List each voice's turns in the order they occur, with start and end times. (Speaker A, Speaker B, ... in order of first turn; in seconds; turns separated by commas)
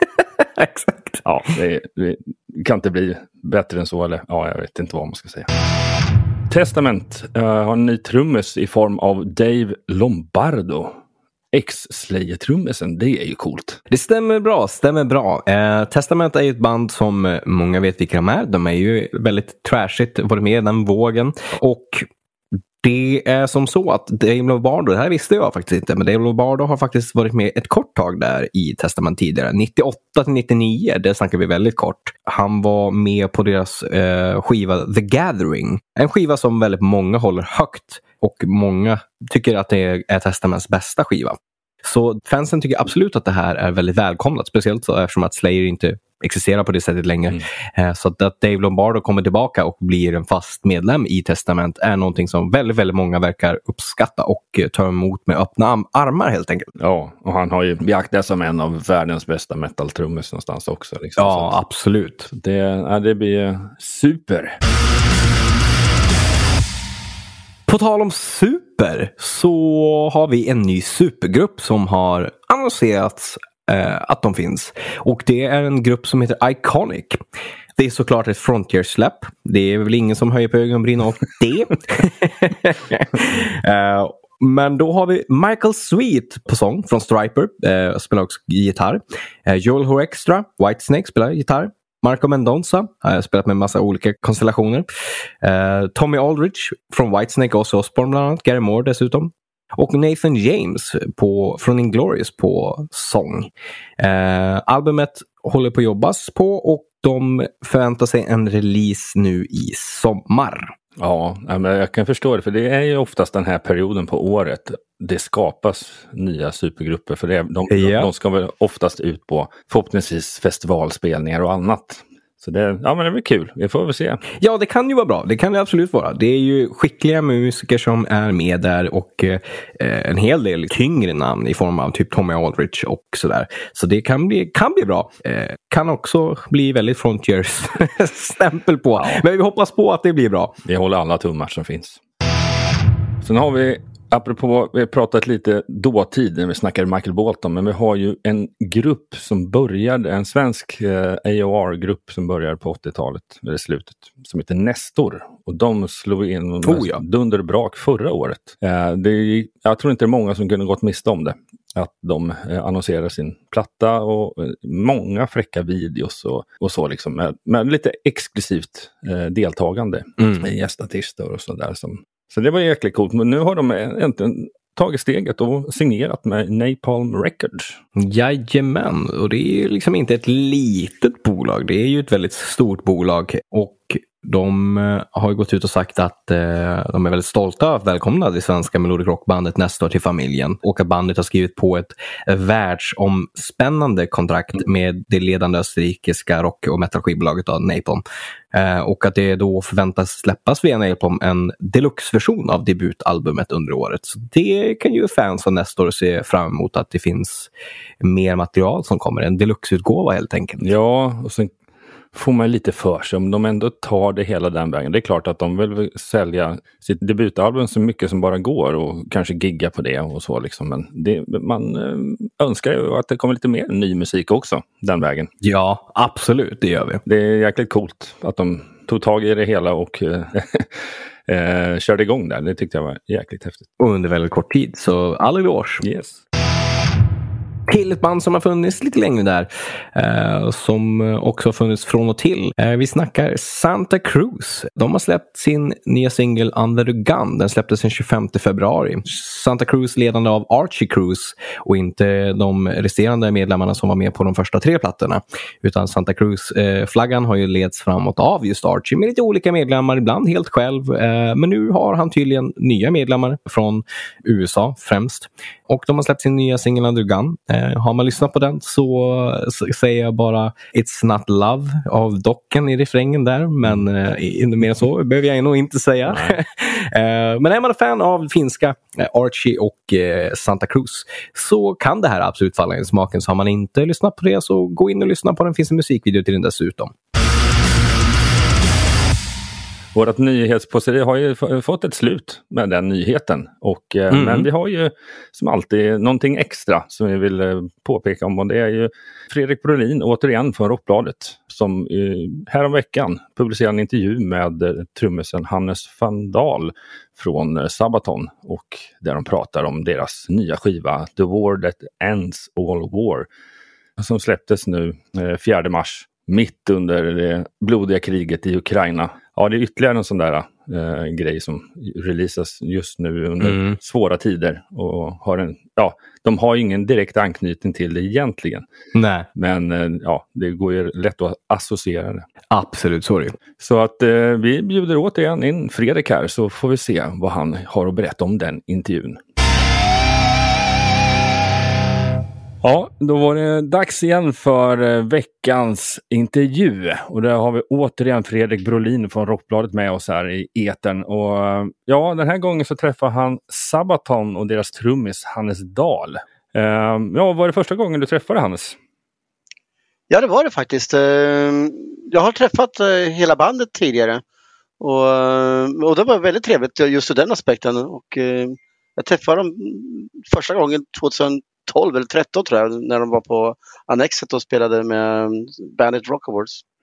Speaker A: 0.4-1.2, Speaker B: 1.2-5.5, Speaker B: 6.5-11.0, Speaker B: 11.5-13.8, Speaker A: 13.9-22.1, Speaker A: 22.8-56.7, Speaker B: 56.8-61.5, Speaker A: 61.2-62.3, Speaker B: 62.3-64.6, Speaker A: 67.7-77.2, Speaker A: 77.8-94.9, Speaker A: 95.4-110.7, Speaker B: 111.0-124.2, Speaker A: 117.7-118.1, Speaker A: 124.4-140.6, Speaker B: 139.0-139.2, Speaker B: 140.6-142.0, Speaker B: 143.2-177.8, Speaker A: 156.6-157.0, Speaker A: 170.2-170.4, Speaker A: 177.9-198.0, Speaker A: 198.5-207.5, Speaker A: 208.0-210.7, Speaker B: 210.6-211.5, Speaker B: 212.1-225.3, Speaker A: 225.4-227.0, Speaker B: 227.1-233.7, Speaker A: 233.8-235.8, Speaker B: 235.8-236.2, Speaker A: 237.7-286.9, Speaker B: 276.1-276.4, Speaker B: 289.9-313.3, Speaker A: 294.1-294.5, Speaker B: 314.0-328.6, Speaker A: 323.4-323.8, Speaker A: 328.9-329.3, Speaker B: 329.3-332.3, Speaker A: 332.5-333.4, Speaker B: 333.6-339.2, Speaker B: 342.6-358.8, Speaker C: 360.1-364.2, Speaker C: 364.8-376.6